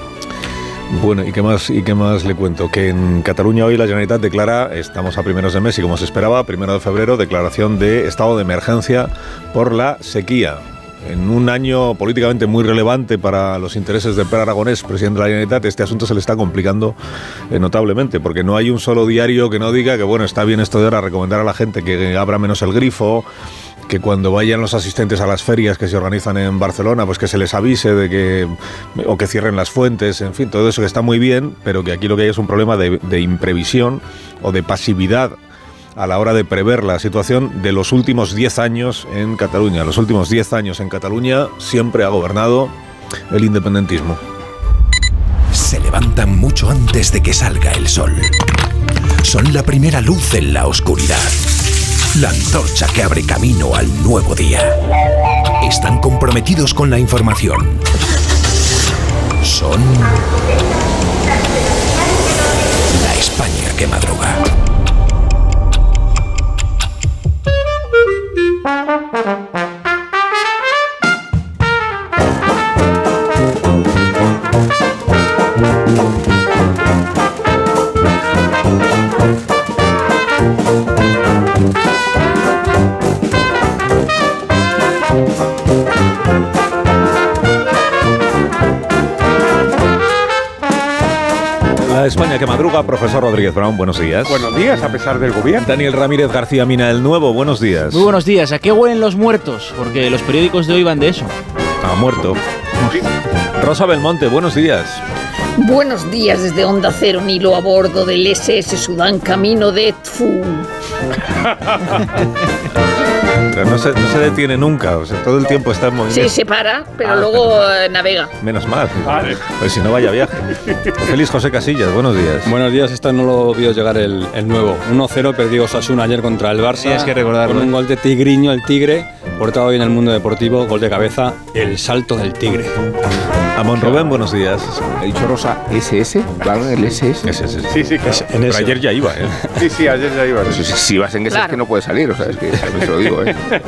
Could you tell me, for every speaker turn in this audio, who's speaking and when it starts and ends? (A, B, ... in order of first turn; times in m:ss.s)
0:00.9-0:17.0 A
0:17.5-0:23.3 A
0:23.9-0:35.4 A
0:36.0-0:42.7 A
0:43.3-0:44.2 A
0:45.5-0:48.3 B
0:49.2-0:51.4 B
0:52.1-0:54.7 B
0:55.6-0:57.8 B
0:59.4-1:00.2 B
1:02.9-1:04.4 B
1:31.8-1:34.5 A
1:34.3-1:35.6 C
1:35.6-1:38.0 A
1:37.9-1:41.3 D
1:41.8-1:43.0 A
1:43.6-1:45.0 A
1:45.6-1:50.7 E
1:53.5-1:56.3 A
1:56.1-1:58.3 E
1:58.4-2:00.4 A
1:59.1-1:59.4 C
2:01.0-2:02.5 A
2:02.5-2:07.0 F
2:06.8-2:07.7 A
2:07.6-2:12.6 F
2:13.6-2:14.8 A
2:15.0-2:17.3 G
2:17.2-2:19.4 A
2:17.7-2:18.3 C
2:19.6-2:20.6 C
2:20.5-2:23.3 G